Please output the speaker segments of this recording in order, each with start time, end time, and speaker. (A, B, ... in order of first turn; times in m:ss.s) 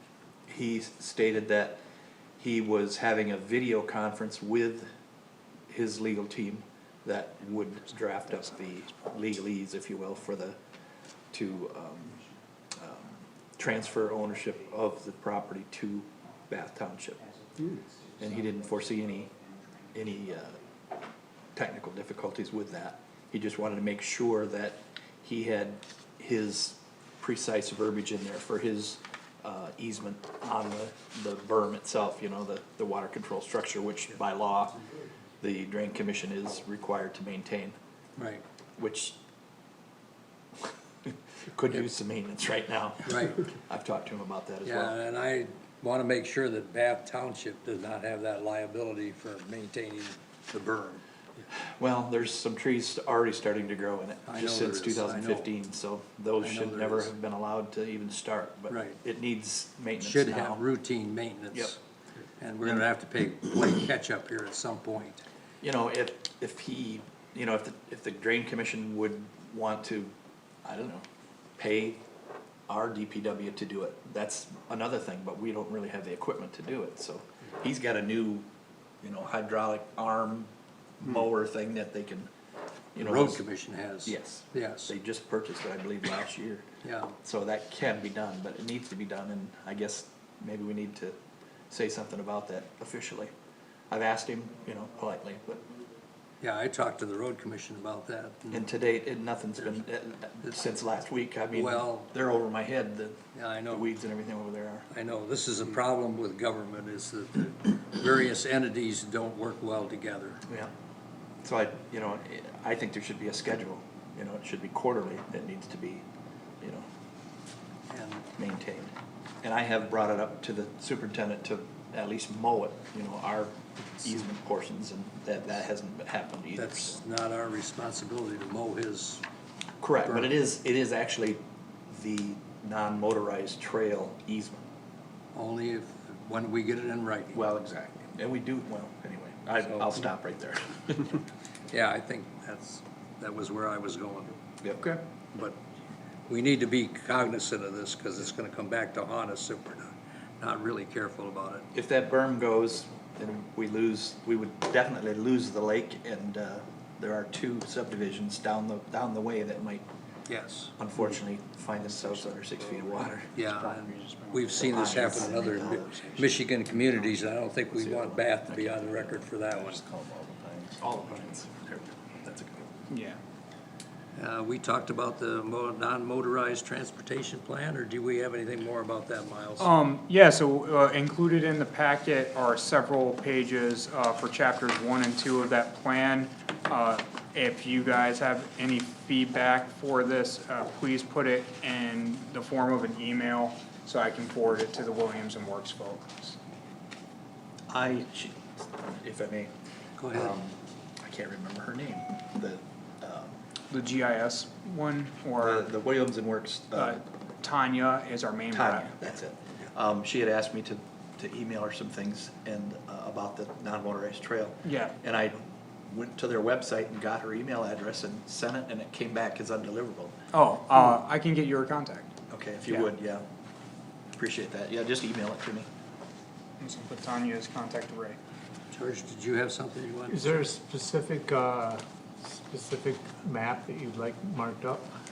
0:00.5-0:01.8 A
0:02.4-0:04.9 A
0:05.7-0:10.6 A
0:11.3-0:12.2 A
0:12.8-0:17.2 A
0:17.2-0:18.2 B
0:18.2-0:19.3 A
0:19.9-0:20.6 A
0:21.5-0:34.8 A
0:35.4-0:37.8 A
0:38.2-0:38.4 C
0:38.8-0:39.2 A
0:41.0-0:45.0 A
0:43.0-0:43.5 C
0:44.6-0:51.0 C
0:51.5-1:00.6 A
0:54.3-0:55.5 C
0:56.4-0:57.1 C
0:58.7-0:59.0 C
1:00.0-1:01.8 C
1:02.4-1:05.2 C
1:05.6-1:10.1 A
1:10.6-1:11.0 A
1:11.6-1:12.0 A
1:12.7-1:18.5 A
1:19.0-1:22.3 A
1:22.9-1:23.4 A
1:23.0-1:24.9 C
1:24.0-1:26.7 A
1:26.8-1:27.1 C
1:27.2-1:31.2 A
1:31.7-1:33.3 A
1:33.9-1:35.6 A
1:36.4-1:38.7 C
1:38.5-1:44.9 A
1:41.5-1:42.1 C
1:43.3-1:43.8 C
1:44.9-1:50.4 C
1:51.4-1:56.0 A
1:56.6-1:56.8 A
1:57.9-1:58.3 C
1:58.4-2:07.0 A
2:06.6-2:09.2 C
2:09.8-2:14.6 A
2:10.0-2:10.3 C
2:15.3-2:17.4 C
2:17.3-2:21.2 A
2:19.6-2:20.1 C
2:21.7-2:24.4 C
2:24.6-2:25.0 A
2:26.3-2:31.7 C
2:31.7-2:39.8 A
2:40.3-2:40.7 C
2:40.8-2:43.3 A
2:41.9-2:46.2 B
2:43.3-2:49.8 C
2:44.6-2:52.8 A
2:52.9-2:53.2 B
2:54.2-2:59.7 C
2:59.6-3:16.4 B
3:17.7-3:19.5 A
3:20.0-3:20.3 C
3:20.1-3:23.4 A
3:23.7-3:25.7 B
3:25.4-3:27.0 A
3:26.8-3:29.0 B
3:28.5-3:40.1 A
3:34.6-3:35.0 B
3:40.3-3:42.1 B
3:42.3-3:43.2 A
3:44.1-3:45.7 A
3:46.6-3:48.2 B
3:48.7-3:50.4 C
3:50.1-3:54.9 D